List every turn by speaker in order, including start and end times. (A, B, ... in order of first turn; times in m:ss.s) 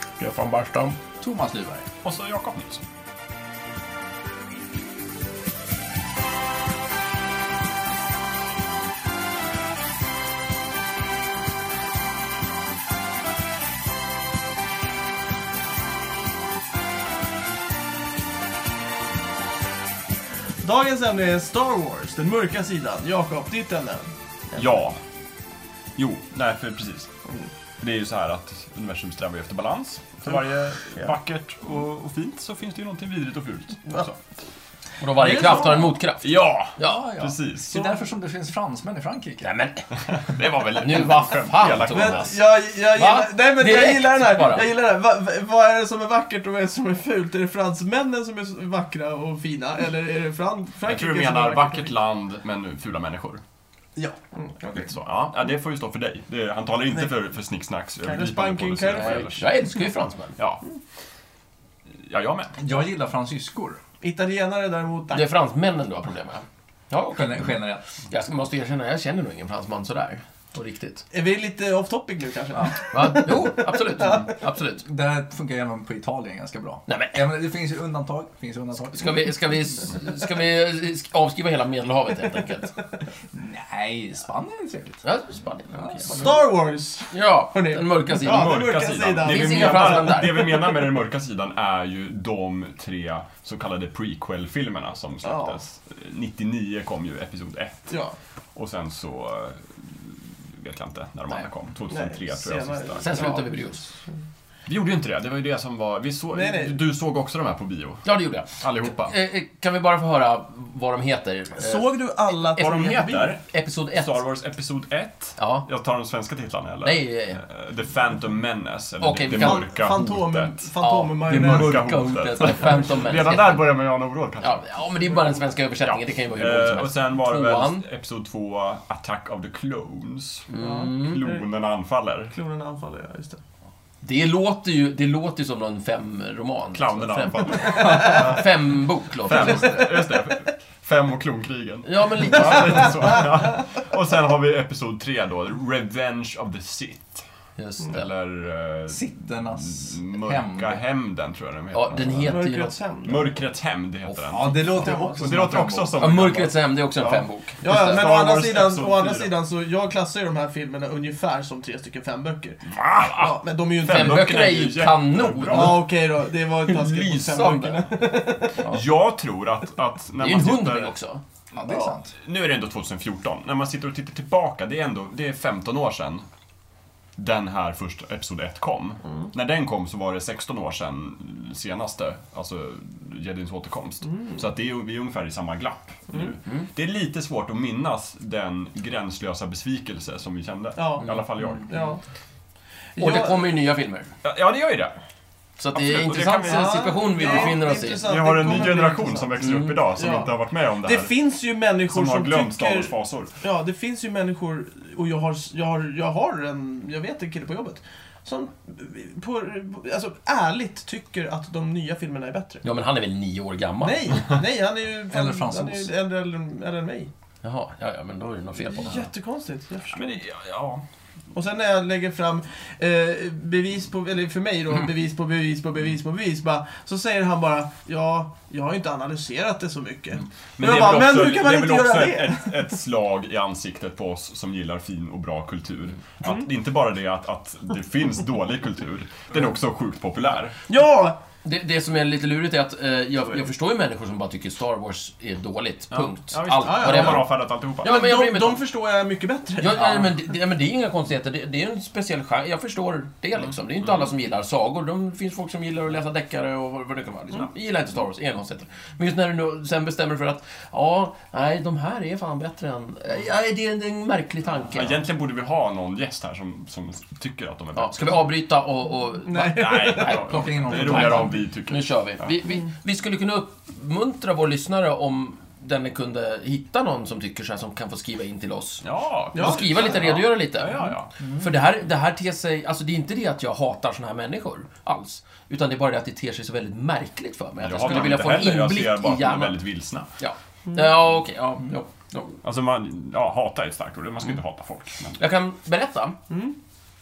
0:00.2-0:01.0 A
0:01.2-0:01.9 B
0:02.0-0:02.8 C
0:20.6-0:24.6 D
0:24.6-0:25.0 C
0:26.0-0:27.1 C
0:27.8-0:34.2 C
0:30.3-0:31.1 D
0:35.0-0:37.0 A
0:35.2-0:35.9 D
0:35.3-0:37.9 C
0:36.8-0:39.5 B
0:39.4-0:39.9 A
0:40.0-0:42.4 C
0:40.6-0:42.4 A
0:41.9-0:51.9 D
0:43.0-0:44.7 A
0:50.8-0:53.4 C
0:54.0-0:55.0 D
0:54.8-0:59.4 C
0:58.0-0:59.4 D
0:59.0-1:00.4 A
1:00.4-1:00.6 C
1:02.0-1:02.6 C
1:02.6-1:03.8 B
1:04.0-1:05.3 D
1:05.1-1:07.5 A
1:07.2-1:07.8 B
1:08.1-1:11.0 A
1:11.1-1:14.3 D
1:12.9-1:14.8 A
1:14.8-1:19.3 B
1:16.9-1:17.2 A
1:18.9-1:22.8 A
1:23.3-1:25.0 B
1:25.0-1:26.3 A
1:25.8-1:26.4 B
1:26.1-1:30.7 D
1:27.1-1:28.6 A
1:28.2-1:37.9 C
1:29.2-1:30.6 A
1:35.2-1:35.6 D
1:37.9-1:38.2 D
1:38.6-1:43.4 C
1:41.9-1:44.1 D
1:43.0-1:43.9 A
1:44.7-1:49.1 C
1:46.3-1:46.8 D
1:48.0-1:51.8 A
1:51.6-1:53.3 D
1:52.6-2:00.6 C
1:53.3-1:54.2 A
1:55.4-1:55.7 A
1:56.8-1:57.4 A
1:59.0-1:59.7 A
1:59.3-2:01.9 D
2:00.8-2:03.7 A
2:01.3-2:04.8 C
2:04.4-2:07.8 A
2:05.8-2:12.3 C
2:10.5-2:11.2 A
2:10.6-2:11.5 D
2:12.3-2:13.4 D
2:14.0-2:19.9 A
2:16.7-2:18.5 C
2:17.8-2:18.3 D
2:19.2-2:27.3 C
2:19.3-2:20.3 D
2:21.8-2:23.2 A
2:22.6-2:22.9 D
2:27.6-2:28.1 A
2:27.8-2:32.4 C
2:28.9-2:30.8 B
2:31.7-2:32.8 A
2:32.2-2:33.3 D
2:33.0-2:39.3 C
2:34.3-2:36.1 B
2:34.7-2:35.3 D
2:36.0-2:38.0 A
2:37.6-2:44.3 D
2:42.7-2:45.9 C
2:43.8-2:45.9 A
2:45.5-2:48.6 D
2:46.7-2:47.9 A
2:48.6-2:50.9 C
2:50.2-2:51.2 A
2:51.5-2:52.1 B
2:51.6-2:51.9 D
2:52.1-2:56.3 C
2:57.2-3:11.8 C
2:59.1-2:59.3 D
3:04.0-3:04.4 D
3:06.1-3:06.4 D
3:10.8-3:12.0 D
3:13.0-3:13.5 D
3:13.0-3:14.1 A
3:14.2-3:14.9 C
3:15.6-3:18.1 A
3:15.7-3:21.1 C
3:16.4-3:19.3 D
3:19.4-3:19.8 A
3:20.0-3:20.3 D
3:20.8-3:32.6 D
3:21.9-3:23.3 C
3:32.6-3:34.2 A
3:33.8-3:37.1 D
3:35.1-3:35.9 B
3:37.4-3:39.1 A
3:38.6-3:40.2 D
3:39.9-3:40.8 C
3:41.3-3:52.6 D
3:50.6-4:00.6 C
4:00.7-4:01.2 D
4:01.4-4:08.6 A
4:05.9-4:08.0 C
4:06.6-4:10.2 D
4:09.6-4:25.0 A
4:24.7-4:28.3 C
4:27.8-4:49.6 A
4:29.3-4:30.2 D
4:29.4-4:32.3 C
4:30.1-4:31.4 B
4:38.8-4:41.1 C
4:39.3-4:40.2 D
4:41.2-4:41.5 B
4:47.6-4:50.1 C
4:50.2-4:52.4 A
4:52.4-4:55.2 C
4:55.2-4:56.2 A
4:56.3-4:56.6 D